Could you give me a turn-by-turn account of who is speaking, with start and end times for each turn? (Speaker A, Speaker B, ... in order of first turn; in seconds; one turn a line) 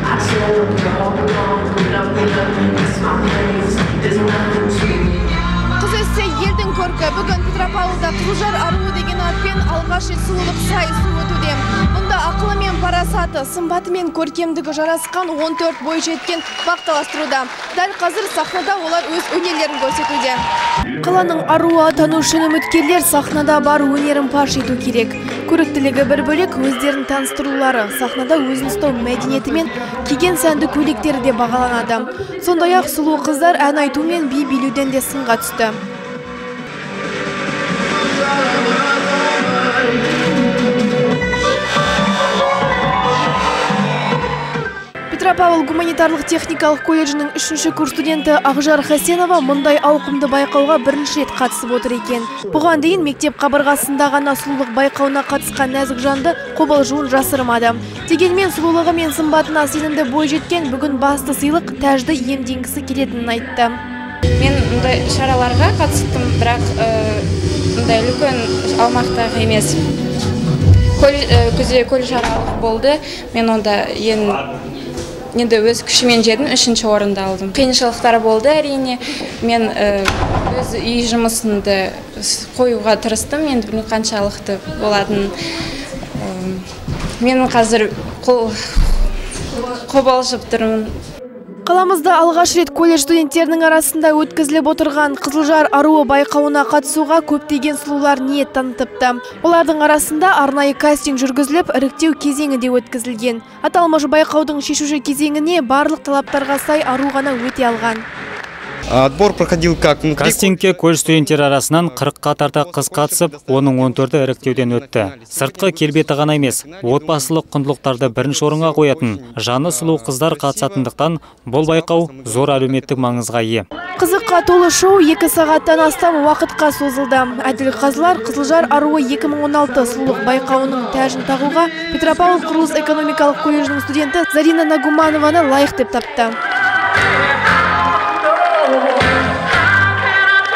Speaker A: 2.0-2.7
Speaker A: 5.8-20.4
Speaker A: 21.0-35.8
Speaker A: 45.1-63.8
Speaker B: 64.4-69.8
Speaker B: 71.0-74.5
Speaker B: 75.3-85.3
Speaker B: 86.2-86.6
Speaker B: 87.2-88.5
Speaker B: 89.6-90.9
Speaker A: 91.6-108.0
Speaker C: 108.9-121.0
Speaker D: 110.2-123.6
Speaker C: 121.6-123.2
Speaker A: 124.0-136.4